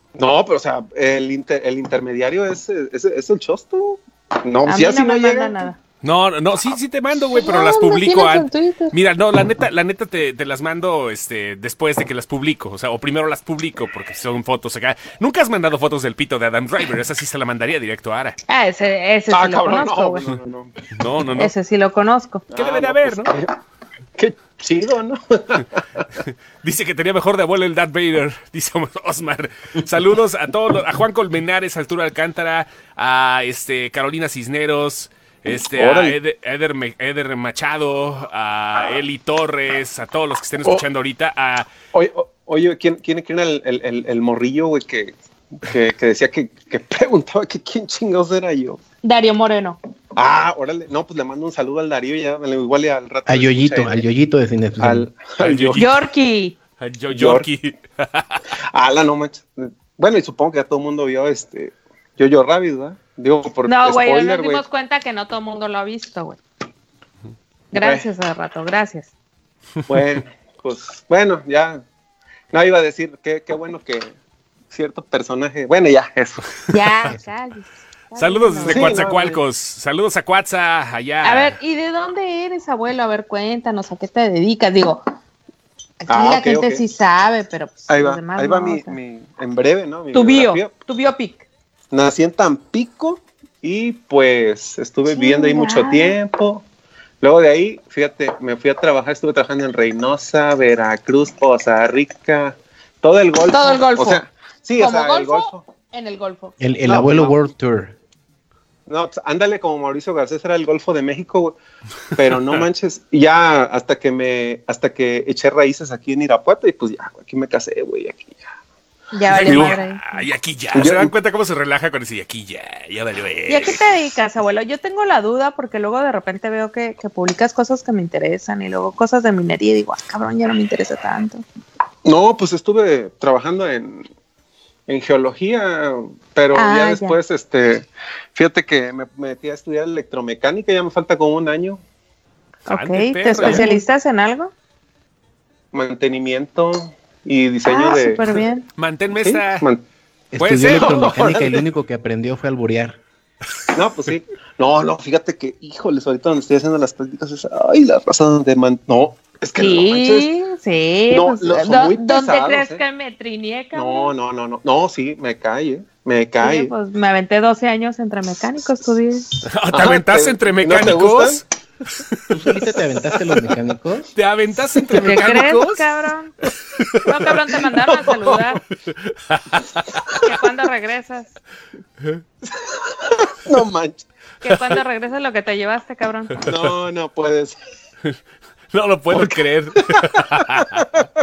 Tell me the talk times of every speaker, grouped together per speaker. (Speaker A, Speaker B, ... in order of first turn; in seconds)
Speaker A: 0.1-5.7, 19.3-20.7, 22.5-23.5, 24.1-25.8, 35.8-36.2, 41.9-48.8, 50.1-54.0, 54.8-55.9, 57.1-57.5, 58.7-64.6, 67.7-68.0, 69.9-71.8, 72.5-74.1, 74.7-76.4, 78.7-79.4, 86.1-86.8, 87.9-90.7, 91.9-96.6, 97.2-105.6, 106.9-107.4, 108.9-111.6, 112.2-118.5, 119.3-119.8, 120.7-121.1, 132.0-134.1, 134.9-141.8, 143.4-143.7, 145.7-148.4, 149.2-149.8, 150.7-151.6, 153.7-160.3, 161.1-162.8, 163.7-166.7, 169.7-171.4, 182.4-184.1, 186.4-187.6
Speaker B: 4.7-5.8, 7.3-8.9, 18.5-20.2, 21.4-22.5, 49.0-49.8, 55.8-56.5, 63.6-66.4, 67.7-69.1, 76.7-79.0, 81.2-85.0, 86.0-89.0, 90.1-91.4, 95.1-96.2, 103.5-104.2, 104.8-106.5, 119.1-120.2, 123.5-131.4, 136.5-137.2, 142.7-144.5, 147.6-148.7, 159.6-164.1, 166.4-169.3, 175.0-176.3, 177.0-178.6, 180.2-181.3, 184.4-186.4
Speaker C: 6.0-18.4, 20.9-21.5, 22.5-23.3, 26.6-41.7, 55.4-55.9, 56.8-58.4, 78.2-81.6, 119.3-123.8, 142.7-143.8, 148.8-149.7, 150.4-151.2, 169.4-171.4, 174.1-175.9, 176.8-177.1, 178.9-179.9, 188.7-190.9
Speaker D: 53.3-55.1, 106.6-108.0, 150.3-153.0, 172.3-174.1